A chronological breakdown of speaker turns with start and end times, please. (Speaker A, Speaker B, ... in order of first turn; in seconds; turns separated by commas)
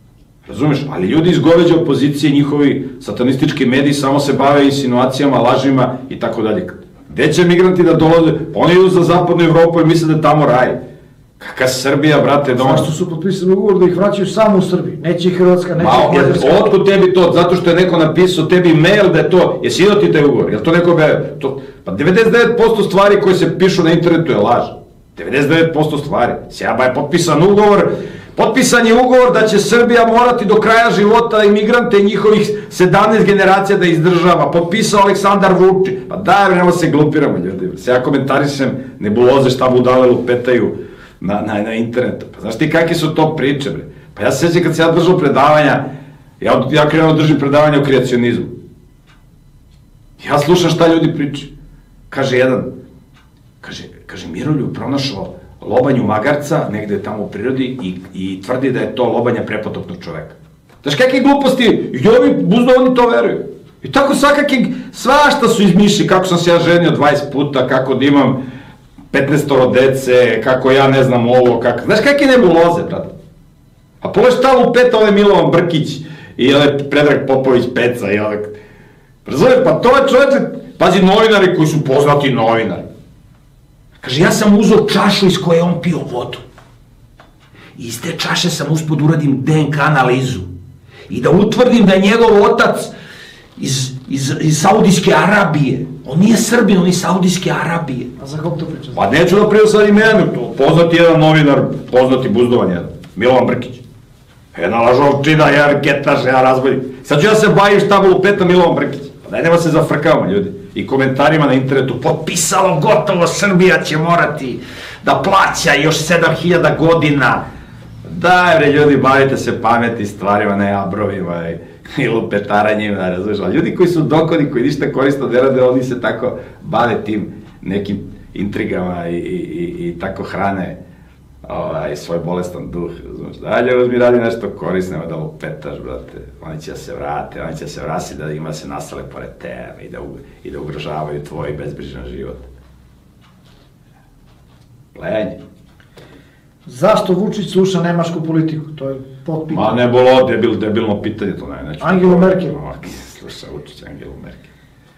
Speaker A: 0.5-10.8, Speaker A: 11.4-12.9, Speaker B: 12.5-16.7, Speaker A: 15.8-45.8, Speaker A: 46.4-48.5, Speaker A: 50.2-51.5, Speaker A: 52.1-52.7, Speaker A: 53.6-68.4, Speaker A: 69.1-73.1, Speaker A: 74.0-78.6, Speaker A: 79.2-82.9, Speaker A: 84.0-86.4, Speaker A: 87.8-90.5, Speaker A: 91.1-92.9, Speaker A: 93.6-98.1, Speaker B: 98.2-99.0, Speaker A: 99.0-103.8, Speaker A: 104.5-117.4, Speaker A: 118.0-130.8, Speaker A: 131.4-142.5, Speaker A: 144.9-145.4, Speaker B: 146.7-149.8, Speaker A: 149.5-154.5, Speaker B: 151.8-152.6